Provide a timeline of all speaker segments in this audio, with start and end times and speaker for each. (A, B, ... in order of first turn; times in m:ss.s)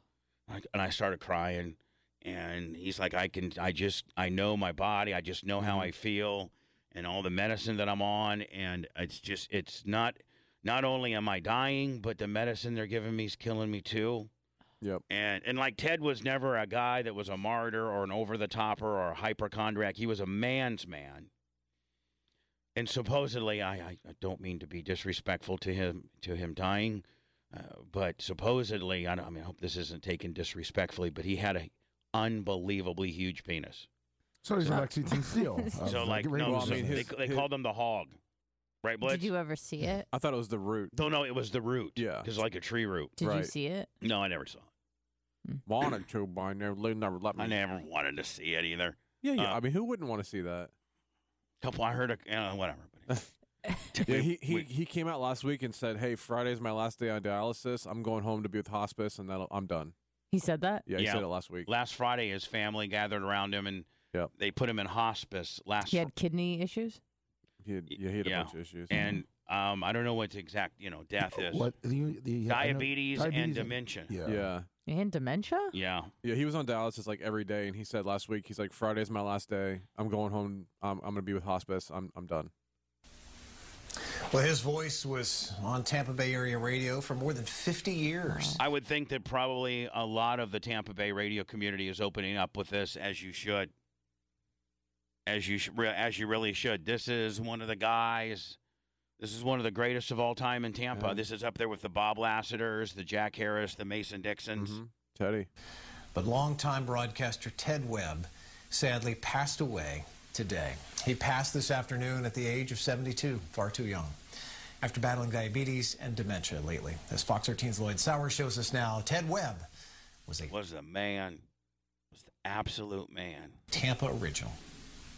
0:00.5-0:14.3 A
0:05.6-0:05.9 B
0:15.1-0:21.3 A
0:22.8-0:33.9 A
0:34.4-0:37.1 C
0:34.8-0:35.9 D
0:35.8-0:38.2 A
0:36.4-0:37.5 B
0:38.8-0:39.3 A
0:39.0-0:40.1 D
0:40.1-0:40.9 B
0:40.9-0:43.1 A
0:42.0-0:42.3 B
0:43.2-0:43.9 D
0:43.2-0:43.5 B
0:44.0-0:44.7 A
0:45.6-0:47.6 B
0:47.4-0:49.6 A
0:49.2-0:50.7 B
0:51.6-0:53.2 A
0:53.9-0:54.7 A
0:54.1-0:59.9 B
1:00.3-1:00.9 D
1:00.9-1:01.7 B
1:01.0-1:06.1 A
1:05.9-1:07.0 D
1:07.6-1:09.0 B
1:07.9-1:11.7 A
1:08.9-1:09.2 D
1:11.2-1:14.5 C
1:12.5-1:14.1 A
1:14.2-1:14.7 B
1:14.8-1:15.7 D
1:15.7-1:16.1 A
1:16.2-1:22.5 B
1:24.3-1:28.6 E
1:28.3-1:28.6 D
1:28.6-1:33.7 A
1:35.2-1:38.6 A
1:39.2-1:44.8 A
1:40.9-1:41.2 B
1:44.6-1:45.5 B
1:46.1-1:54.1 E
1:54.8-1:59.7 E
2:00.3-2:00.5 E
2:00.5-2:01.4 A
2:02.1-2:03.6 A
2:03.7-2:04.6 E